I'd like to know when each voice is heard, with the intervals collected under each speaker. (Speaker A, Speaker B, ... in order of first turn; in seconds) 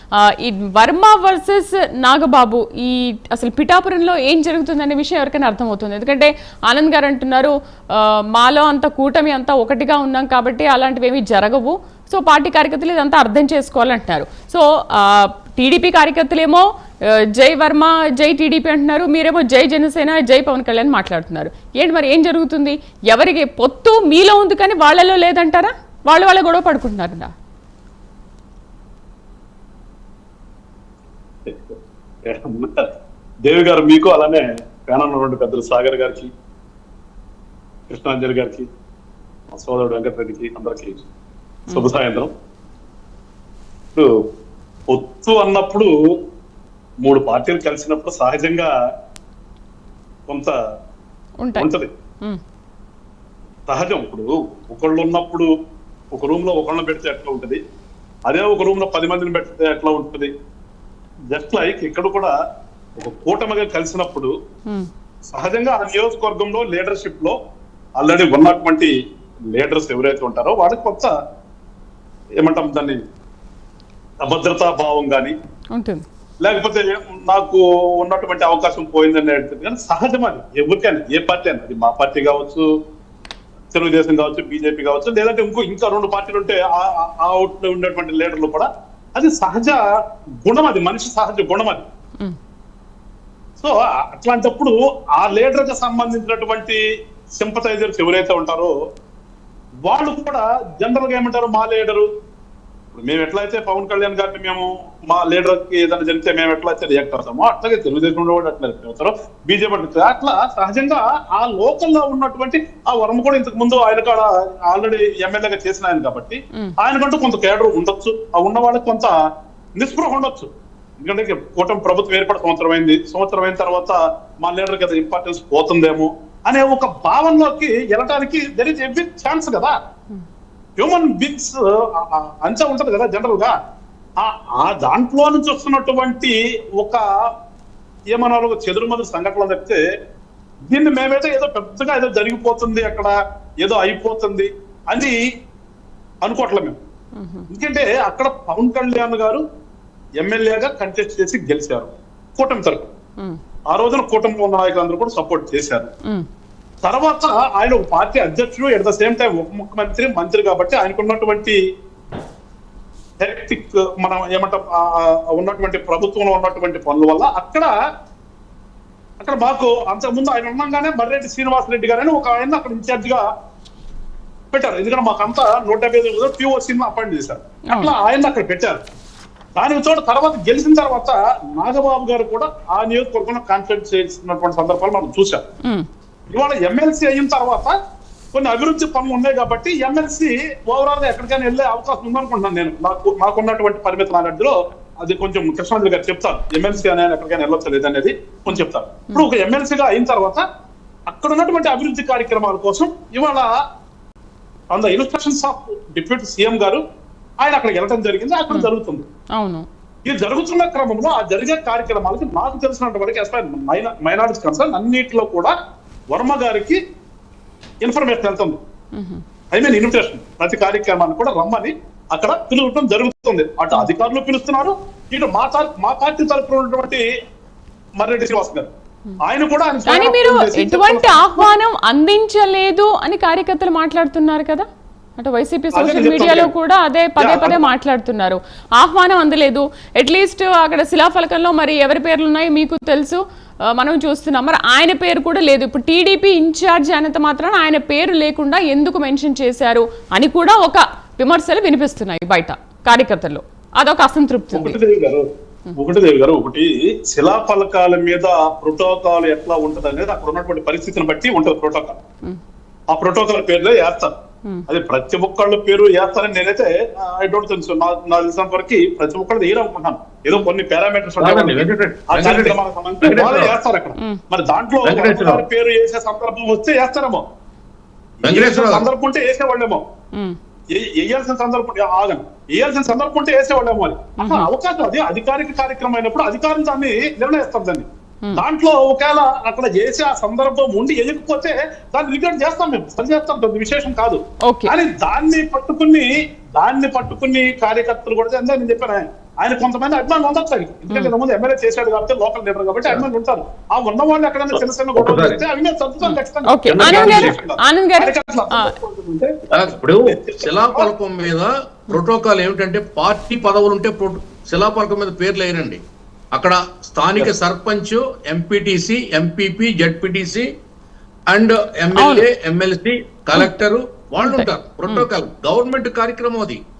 Speaker A: 0.2-27.3, 51.4-51.7, 75.7-76.0, 147.2-147.4, 198.5-199.2, 209.3-209.7, 218.9-219.2, 229.9-234.7, 235.2-254.8, 284.2-284.5, 294.4-294.7, 306.0-308.7, 321.9-322.3, 324.2-325.1
Speaker B: 31.4-32.9, 33.5-36.3, 37.9-38.7, 39.5-41.0, 41.7-42.3, 44.9-45.9, 47.0-48.7, 50.3-50.5, 51.5-51.9, 53.7-55.5, 56.1-57.6, 58.3-60.3, 61.3-62.3, 63.0-64.3, 65.3-67.3, 68.0-68.9, 69.5-71.1, 72.4-73.0, 74.2-75.3, 76.4-82.6, 83.7-89.8, 90.4-91.8, 93.6-96.8, 97.4-98.7, 99.8-102.1, 102.9-119.1, 119.8-129.8, 130.8-133.5, 134.2-137.0, 138.1-139.8, 140.7-145.2, 146.2-146.8, 147.5-149.4, 150.2-152.9, 153.7-155.9, 156.8-161.6, 163.2-167.7, 169.2-173.2, 174.5-178.8, 179.6-185.4, 186.3-187.8, 188.3-200.4, 201.1-203.5, 204.7-206.8, 207.4-209.1, 210.0-215.5, 216.1-216.8, 217.8-218.6, 219.5-227.0, 228.0-228.7, 229.2-231.5, 235.7-236.5, 237.2-237.7, 254.5-255.2, 255.8-262.0, 262.9-264.1, 264.7-277.2, 278.2-279.8, 280.7-309.3, 310.1-310.9
Speaker C: 271.2-273.5, 274.8-275.4, 278.2-278.9, 305.0-305.4, 306.7-307.4, 309.5-315.8, 316.3-320.5, 321.3-326.6